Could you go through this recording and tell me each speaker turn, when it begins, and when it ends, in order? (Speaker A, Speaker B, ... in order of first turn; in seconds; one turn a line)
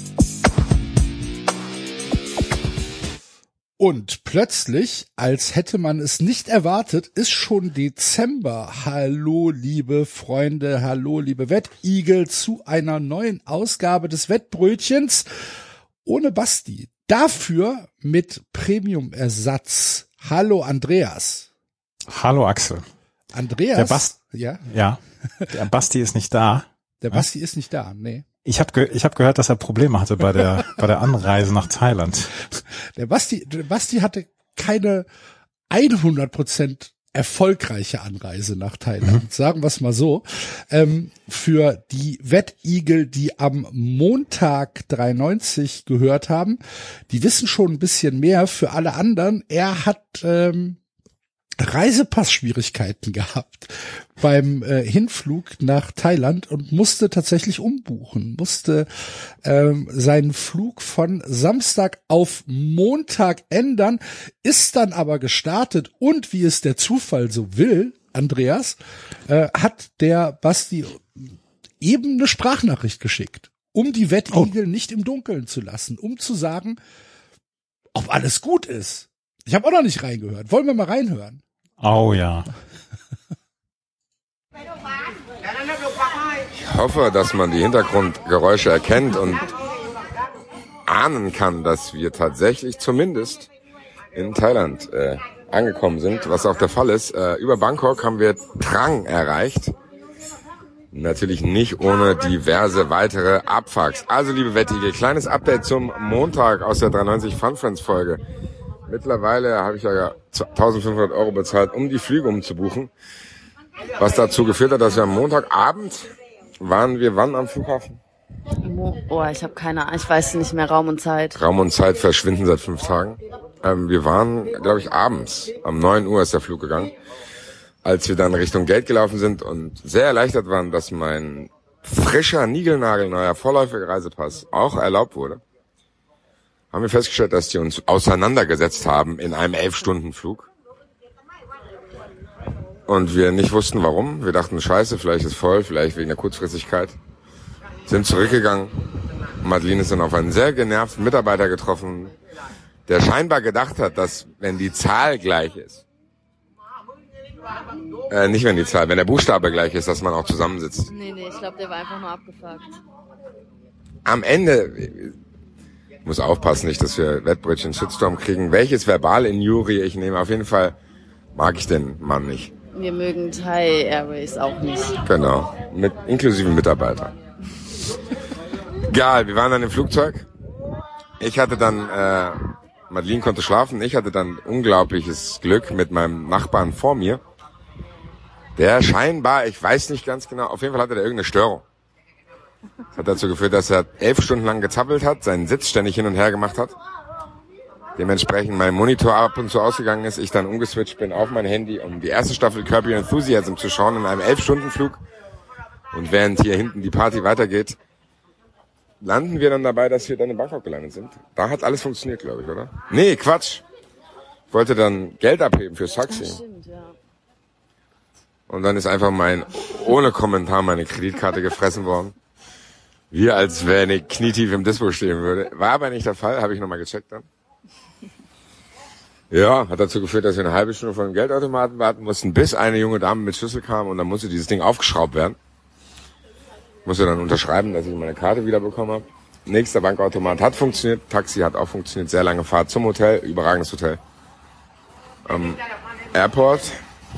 Speaker A: 3.8-15.2
Speaker A: 16.0-21.5
Speaker B: 22.1-22.8
Speaker A: 23.3-24.6
Speaker B: 23.7-24.1
Speaker B: 24.6-27.2
Speaker A: 27.0-28.2
Speaker B: 28.4-32.3
Speaker A: 33.0-35.0
Speaker A: 35.7-50.8
Speaker A: 51.6-68.8
Speaker A: 69.3-76.8
Speaker A: 77.9-81.4
Speaker B: 81.8-82.5
Speaker C: 86.6-89.5
Speaker C: 90.8-93.5
Speaker C: 94.1-99.7
Speaker C: 100.9-108.2
Speaker C: 108.9-112.9
Speaker C: 114.0-118.0
Speaker D: 118.6-121.4
Speaker C: 121.3-126.9
Speaker C: 127.8-135.4
Speaker C: 136.7-140.5
Speaker C: 142.9-146.9
Speaker C: 147.9-148.7
Speaker C: 149.4-152.1
Speaker C: 152.9-155.8
Speaker C: 158.1-160.9
Speaker D: 160.9-162.8
Speaker C: 164.0-165.1
Speaker C: 166.0-170.7
Speaker C: 171.3-172.5
Speaker D: 172.7-175.0
Speaker C: 175.0-177.1
Speaker C: 178.9-180.2
Speaker C: 181.2-187.2
Speaker C: 188.6-191.6
Speaker C: 192.9-196.7
Speaker C: 198.0-205.0
Speaker C: 205.9-207.8
Speaker C: 209.0-213.6
Speaker C: 214.5-216.4
Speaker D: 216.1-216.9
Speaker C: 218.5-222.1
Speaker C: 223.1-227.3
Speaker C: 229.3-235.4
Speaker C: 236.8-244.0
Speaker C: 245.2-245.6
Speaker C: 246.1-246.8